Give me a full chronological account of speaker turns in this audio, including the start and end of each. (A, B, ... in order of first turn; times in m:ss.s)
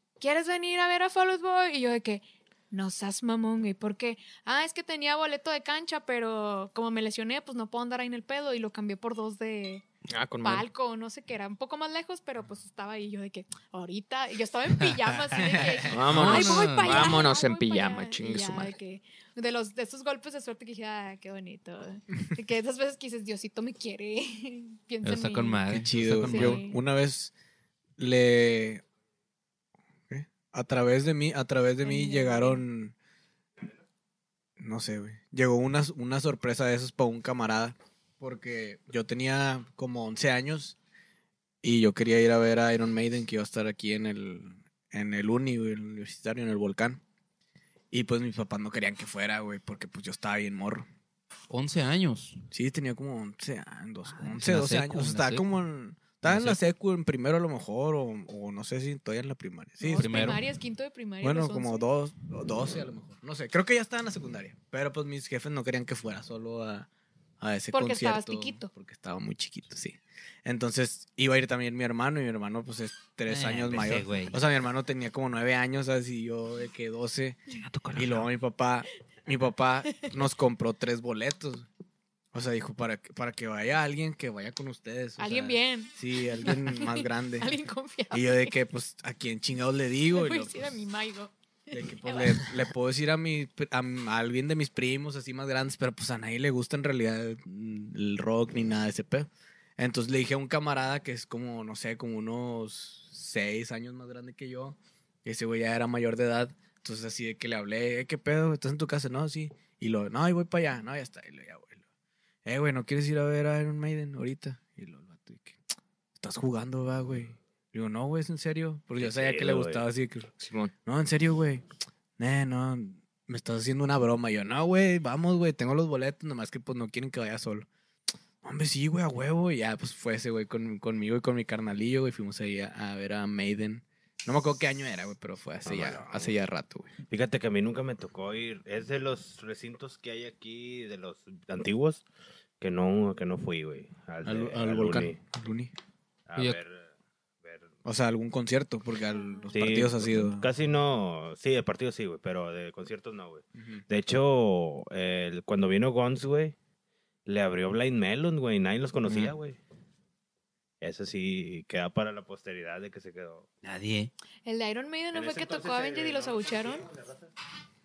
0:00.2-0:09.8 A
0:10.1-0:10.6 B
0:10.4-0:25.7 A
0:15.4-0:16.3 C
0:15.9-0:18.8 B
0:16.0-0:17.2 D
0:25.0-0:26.6 D
0:25.7-0:27.3 C
0:26.3-0:26.8 A
0:28.0-0:28.8 C
0:30.1-0:33.0 C
0:31.8-0:32.6 A
0:34.6-0:40.8 C
0:41.6-0:47.0 C
0:47.9-0:50.9 C
0:51.5-0:52.4 D
0:52.5-1:00.3 C
0:54.1-0:55.5 D
0:56.2-0:56.6 D
0:59.8-1:01.9 A
1:00.0-1:00.4 D
1:01.2-1:06.9 C
1:07.4-1:21.7 C
1:07.7-1:08.7 A
1:13.3-1:14.4 D
1:17.5-1:18.3 D
1:22.3-1:27.6 C
1:25.2-1:28.6 A
1:28.1-1:30.7 C
1:30.1-1:32.6 A
1:31.7-1:51.8 C
1:52.4-1:55.6 C
1:56.2-2:00.3 C
1:59.0-1:59.8 E
2:00.4-2:00.7 B
2:00.8-2:01.6 C
2:02.2-2:07.7 C
2:08.4-2:17.0 C
2:15.6-2:16.3 E
2:17.1-2:22.0 E
2:22.6-2:25.2 E
2:24.2-2:25.7 C
2:26.3-2:26.9 E
2:27.4-2:27.7 E
2:27.8-2:30.5 C
2:29.1-2:29.6 A
2:29.5-2:36.6 E
2:33.6-2:33.8 C
2:37.3-2:39.6 E
2:39.1-2:39.3 D
2:40.8-2:43.5 E
2:43.6-2:44.1 D
2:44.5-2:46.9 A
2:45.1-2:47.3 E